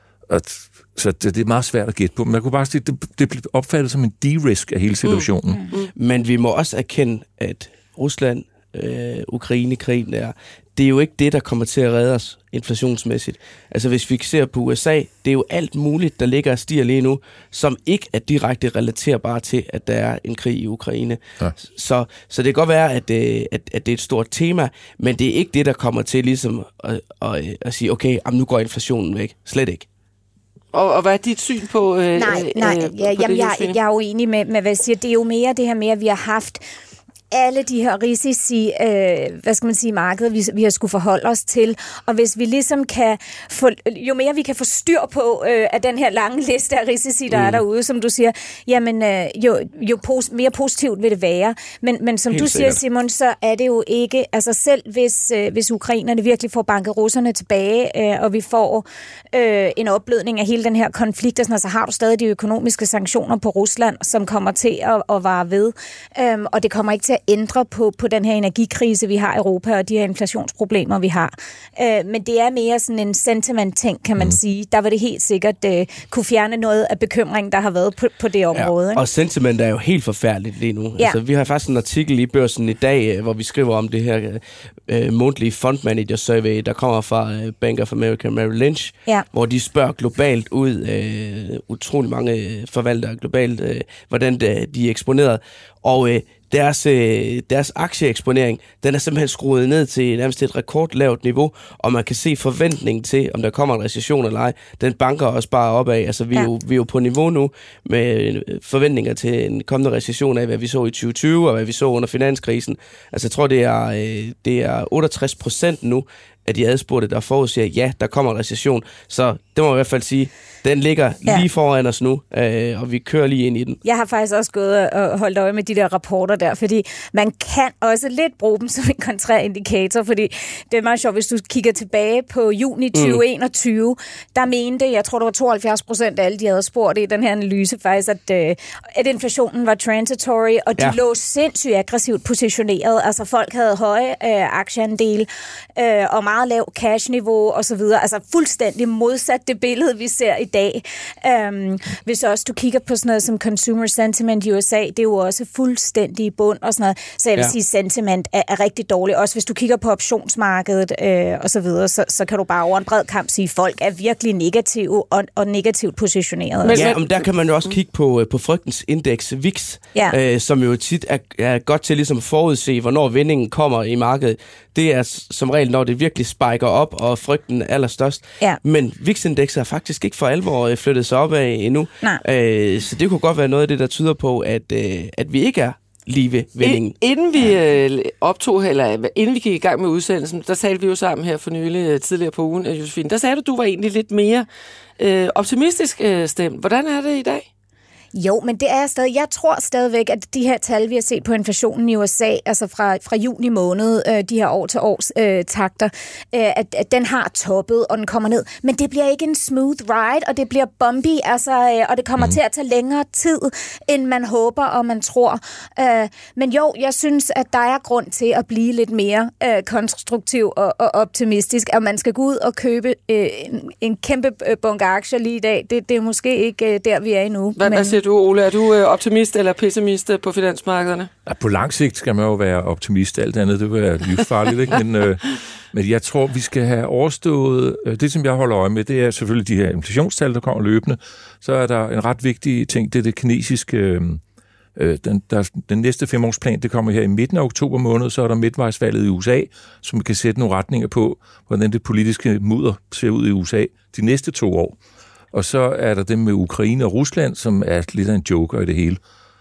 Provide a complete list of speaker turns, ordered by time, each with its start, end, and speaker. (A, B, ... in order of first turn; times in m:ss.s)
0:00.3-0:05.6 A
0:05.0-0:05.9 B
0:06.0-0:29.9 C
0:30.7-0:33.8 B
0:32.2-0:36.6 D
0:37.3-1:19.0 D
0:47.3-0:47.6 C
0:52.3-0:52.8 C
1:18.5-2:03.8 C
2:03.8-2:47.0 D
2:12.9-2:13.2 C
2:46.6-2:47.0 B
2:46.7-3:06.9 C
3:06.6-3:14.4 B
3:15.0-3:17.4 B
3:18.1-3:48.0 D
3:47.6-3:51.1 B
3:51.2-4:04.2 A
4:04.8-4:14.8 A
4:15.3-4:19.0 A